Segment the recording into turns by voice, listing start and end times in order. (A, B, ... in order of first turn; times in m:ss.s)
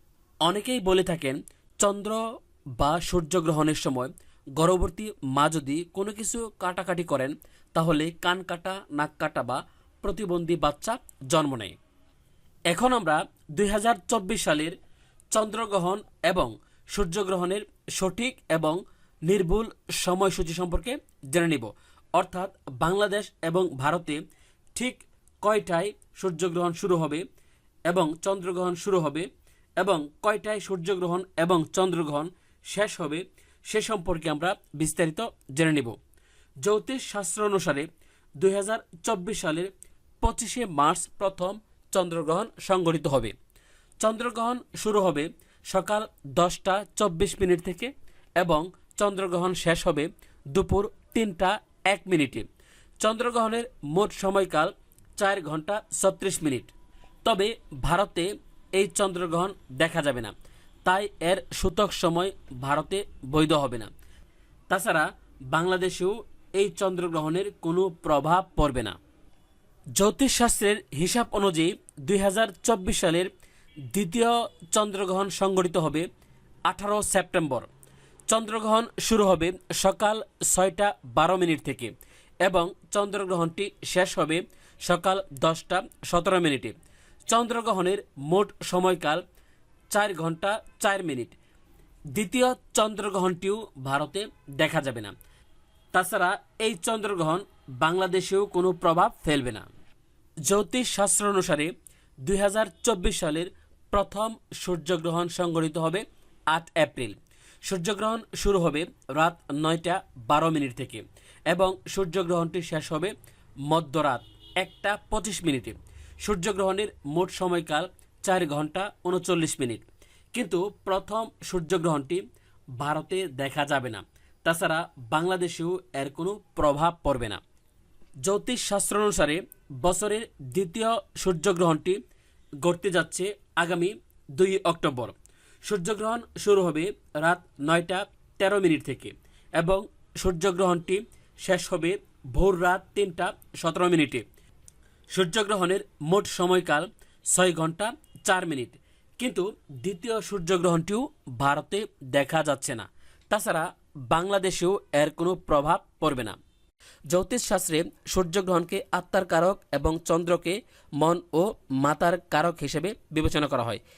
0:00.4-0:02.2 A
0:02.7-0:11.7 A
0:12.7-0:14.8 A
0:15.3-0:24.2 A
0:24.7-0:27.2 A
0:27.8-0:36.0 A
0:36.6-0:39.7 A
0:40.2-0:43.3 A
0:44.0-0:52.4 A
0:53.0-0:56.7 A
0:57.2-1:00.3 A
1:00.8-1:03.9 A
1:04.7-1:09.0 A
1:09.9-1:13.3 A
1:13.9-1:16.0 A
1:16.6-1:17.7 A
1:18.3-1:26.7 A
1:27.3-1:29.2 A
1:29.9-1:31.4 A
1:32.1-1:35.1 A
1:35.9-1:39.7 A
1:40.4-1:41.7 A
1:42.2-1:53.1 A
1:53.6-2:02.2 A
2:02.8-2:07.4 A
2:08.2-2:12.0 A
2:12.6-2:24.2 A
2:25.1-2:36.4 A
2:37.1-2:43.8 A